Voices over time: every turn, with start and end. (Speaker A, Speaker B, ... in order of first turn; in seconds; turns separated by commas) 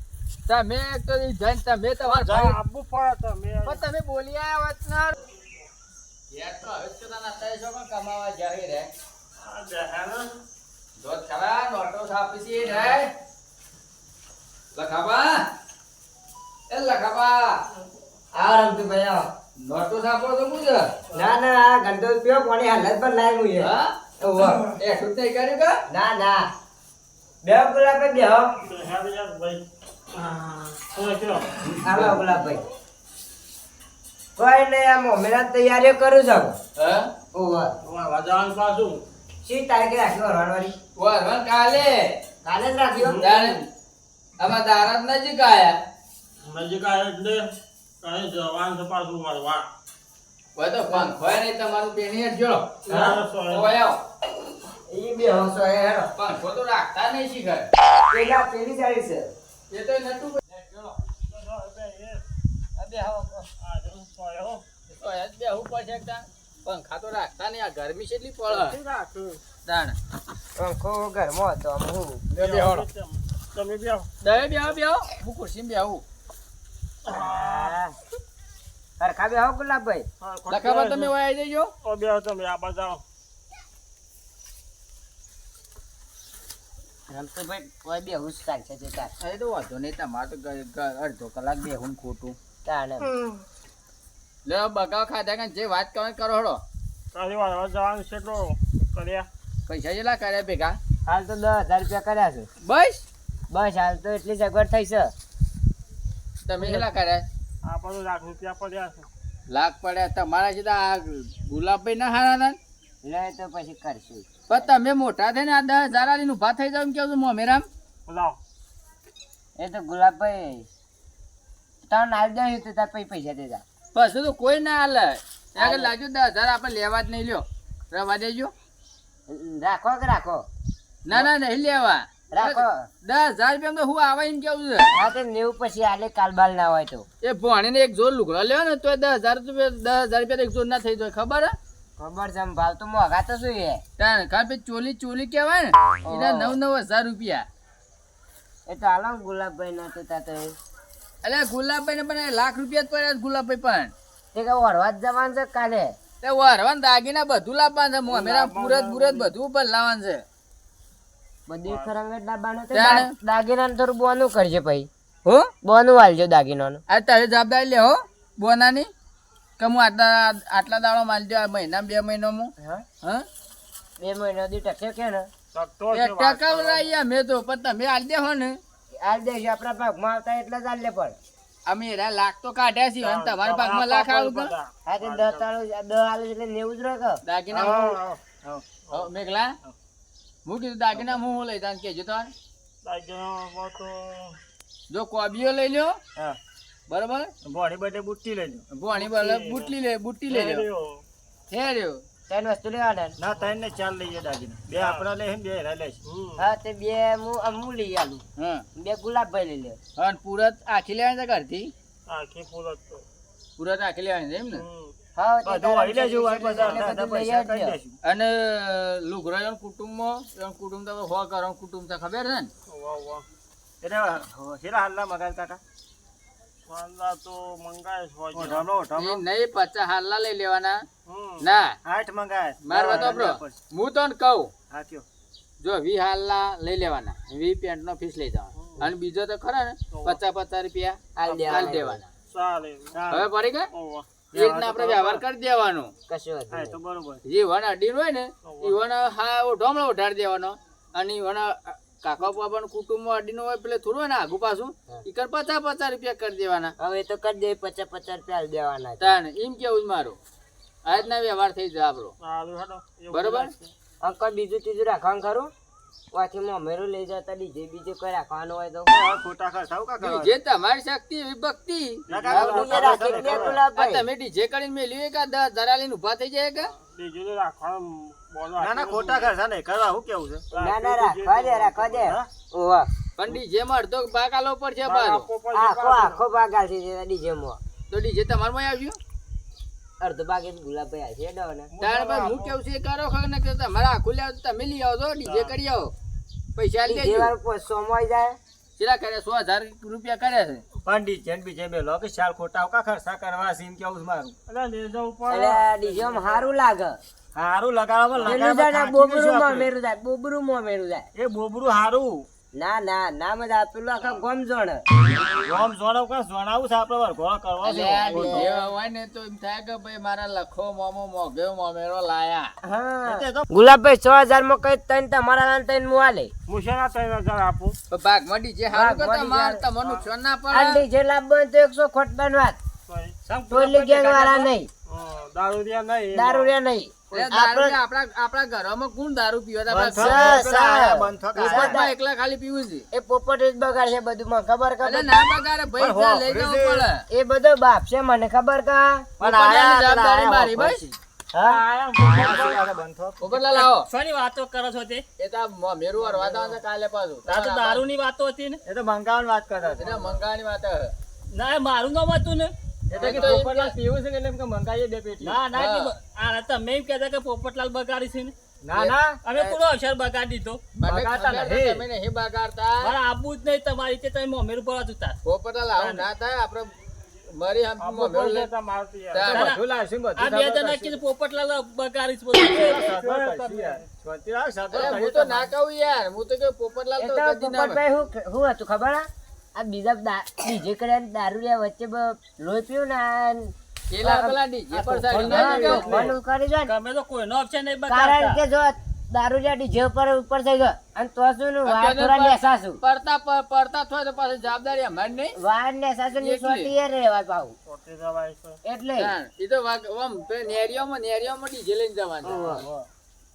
Speaker A: 0.5-2.6, Speaker B: 2.0-3.8, Speaker A: 3.6-5.2, Speaker B: 5.4-5.7, Speaker A: 6.3-8.9, Speaker B: 9.4-10.4, Speaker A: 11.0-13.1, Speaker A: 14.7-15.5, Speaker A: 16.7-17.6, Speaker C: 18.3-19.3, Speaker A: 19.6-20.9, Speaker C: 21.1-24.7, Speaker A: 23.6-25.8, Speaker C: 25.9-26.5, Speaker C: 27.4-28.5, Speaker B: 28.6-31.6, Speaker A: 31.6-32.2, Speaker C: 31.8-32.6, Speaker C: 34.4-36.6, Speaker A: 36.8-37.1, Speaker C: 37.3-37.7, Speaker B: 37.8-39.0, Speaker C: 39.4-40.8, Speaker A: 41.0-42.2, Speaker C: 42.4-43.3, Speaker B: 43.0-43.6, Speaker A: 43.2-43.6, Speaker A: 44.4-45.8, Speaker B: 46.4-49.7, Speaker A: 50.6-52.9, Speaker B: 52.9-53.7, Speaker C: 52.9-53.2, Speaker A: 53.5-54.0, Speaker C: 54.9-56.1, Speaker A: 56.1-57.7, Speaker C: 58.1-59.3, Speaker A: 59.7-61.0, Speaker B: 61.2-62.2, Speaker C: 62.8-63.5, Speaker B: 63.6-64.7, Speaker A: 64.9-68.8, Speaker B: 68.5-69.4, Speaker A: 69.7-70.0, Speaker C: 70.6-72.2, Speaker A: 72.3-72.8, Speaker B: 72.3-74.3, Speaker A: 74.2-76.0, Speaker B: 77.0-77.8, Speaker C: 77.1-78.0, Speaker C: 79.0-80.1, Speaker B: 80.2-81.2, Speaker A: 80.5-81.7, Speaker B: 81.8-83.0, Speaker C: 87.1-89.1, Speaker A: 89.2-92.4, Speaker C: 92.7-93.2, Speaker A: 94.5-96.6, Speaker B: 97.1-99.3, Speaker A: 99.7-100.8, Speaker C: 101.1-102.5, Speaker A: 102.6-103.0, Speaker C: 103.5-105.1, Speaker A: 106.5-107.3, Speaker B: 107.6-109.1, Speaker A: 109.5-112.6, Speaker C: 113.0-114.7, Speaker A: 114.5-117.7, Speaker B: 118.1-118.4, Speaker C: 119.6-120.7, Speaker C: 121.9-123.7, Speaker A: 123.9-128.5, Speaker C: 125.6-125.9, Speaker C: 129.3-130.5, Speaker A: 131.1-134.9, Speaker C: 132.3-132.9, Speaker C: 134.9-137.1, Speaker A: 137.2-141.6, Speaker C: 142.0-143.8, Speaker A: 144.0-147.5, Speaker C: 146.1-146.6, Speaker C: 148.7-150.6, Speaker A: 151.2-153.9, Speaker C: 154.3-156.0, Speaker A: 156.2-160.2, Speaker B: 158.1-159.3, Speaker C: 161.5-164.9, Speaker A: 162.7-163.1, Speaker A: 165.2-165.5, Speaker C: 165.6-166.8, Speaker A: 166.9-168.9, Speaker A: 169.6-173.3, Speaker C: 172.6-172.8, Speaker C: 174.0-175.3, Speaker B: 175.5-176.9, Speaker A: 175.9-178.6, Speaker C: 179.0-181.2, Speaker A: 181.7-184.5, Speaker B: 183.0-185.5, Speaker C: 184.9-187.2, Speaker A: 187.2-188.0, Speaker B: 187.5-188.2, Speaker B: 188.8-189.1, Speaker A: 188.9-189.6, Speaker A: 190.5-192.3, Speaker B: 192.8-194.4, Speaker A: 194.9-196.0, Speaker A: 196.9-197.3, Speaker D: 197.4-198.6, Speaker A: 198.7-200.7, Speaker B: 199.0-199.7, Speaker B: 200.3-201.0, Speaker A: 201.5-202.0, Speaker C: 202.3-203.2, Speaker D: 203.2-206.0, Speaker B: 204.7-205.1, Speaker B: 206.1-206.4, Speaker C: 206.4-208.2, Speaker A: 208.4-208.6, Speaker C: 208.8-209.8, Speaker A: 210.0-211.7, Speaker B: 212.1-213.1, Speaker A: 213.6-214.7, Speaker B: 214.5-214.9, Speaker C: 215.2-217.8, Speaker D: 215.4-218.0, Speaker A: 218.0-222.5, Speaker B: 222.7-223.2, Speaker D: 223.8-225.6, Speaker B: 226.7-228.7, Speaker D: 228.3-229.2, Speaker A: 229.0-230.8, Speaker B: 231.1-231.4, Speaker A: 231.4-231.8, Speaker D: 231.8-233.6, Speaker A: 232.6-234.5, Speaker D: 234.7-235.1, Speaker A: 235.6-242.1, Speaker B: 238.6-238.9, Speaker B: 239.9-240.2, Speaker C: 241.2-242.0, Speaker B: 241.3-241.8, Speaker B: 242.3-243.1, Speaker D: 242.9-243.3, Speaker A: 243.1-243.7, Speaker B: 243.7-244.3, Speaker D: 244.3-245.2, Speaker A: 244.3-245.9, Speaker C: 246.1-246.8, Speaker D: 246.5-247.2, Speaker A: 247.2-256.7, Speaker B: 248.4-248.8, Speaker C: 256.8-259.1, Speaker A: 259.0-260.2, Speaker A: 260.9-262.1, Speaker B: 262.2-263.7, Speaker A: 263.1-263.5, Speaker C: 264.0-265.5, Speaker C: 266.1-269.0, Speaker D: 268.9-270.3, Speaker A: 270.0-272.1, Speaker B: 272.1-273.6, Speaker D: 272.1-273.6, Speaker C: 272.3-274.1, Speaker A: 273.8-276.7, Speaker B: 276.6-279.3, Speaker D: 278.6-280.5, Speaker B: 280.5-282.1, Speaker C: 280.6-282.9, Speaker A: 283.2-285.3, Speaker B: 284.8-286.2, Speaker C: 285.5-287.6, Speaker A: 287.9-289.0, Speaker C: 290.0-291.7, Speaker B: 291.7-292.6, Speaker A: 291.8-295.9, Speaker B: 295.2-295.6, Speaker A: 296.6-297.3, Speaker C: 296.9-298.4, Speaker A: 298.8-300.6, Speaker D: 300.9-304.4, Speaker B: 304.5-306.4, Speaker C: 305.3-307.0, Speaker D: 307.3-309.7, Speaker C: 308.3-311.1, Speaker D: 311.1-312.3, Speaker C: 312.6-314.9, Speaker D: 315.4-318.5, Speaker A: 317.6-322.5, Speaker B: 318.1-318.5, Speaker C: 322.6-326.3, Speaker D: 323.1-323.4, Speaker B: 326.5-327.8, Speaker A: 327.9-330.9, Speaker C: 328.7-329.6, Speaker B: 329.8-330.1, Speaker C: 330.5-332.6, Speaker B: 332.9-333.2, Speaker E: 333.3-334.5, Speaker C: 333.5-334.7, Speaker B: 334.9-336.5, Speaker C: 336.1-337.7, Speaker A: 337.1-340.4, Speaker D: 339.7-341.8, Speaker C: 340.0-341.9, Speaker A: 341.3-342.9, Speaker C: 342.9-345.2, Speaker A: 344.8-347.0, Speaker D: 345.8-346.9, Speaker C: 347.1-349.1, Speaker D: 349.2-353.3, Speaker A: 349.2-350.9, Speaker A: 353.2-353.9, Speaker E: 353.5-355.0, Speaker A: 355.2-357.8, Speaker D: 356.1-356.4, Speaker E: 357.3-358.6, Speaker D: 358.7-360.2, Speaker A: 359.8-360.9, Speaker E: 361.3-362.5, Speaker D: 362.9-365.4, Speaker A: 362.9-363.7, Speaker B: 363.0-363.4, Speaker E: 365.2-368.3, Speaker A: 365.5-366.0, Speaker D: 368.6-369.2, Speaker A: 368.7-369.6, Speaker E: 369.2-370.6, Speaker A: 370.8-372.9, Speaker D: 370.9-371.9, Speaker E: 372.8-375.2, Speaker A: 375.2-376.7, Speaker A: 377.3-378.5, Speaker B: 377.8-379.5, Speaker A: 379.1-379.6, Speaker E: 379.3-379.6, Speaker D: 379.3-381.0, Speaker E: 380.2-382.8, Speaker D: 382.5-385.5, Speaker B: 382.6-383.9, Speaker A: 384.7-387.8, Speaker C: 387.0-393.5, Speaker A: 393.9-396.1, Speaker C: 394.0-396.7, Speaker E: 395.3-395.7, Speaker B: 395.3-396.1, Speaker E: 396.7-398.4, Speaker C: 397.9-402.8, Speaker A: 401.6-405.4, Speaker C: 405.4-407.6, Speaker A: 406.2-406.7, Speaker B: 407.7-408.6, Speaker C: 408.6-409.1, Speaker A: 409.0-412.6, Speaker C: 412.2-412.6, Speaker D: 412.5-412.9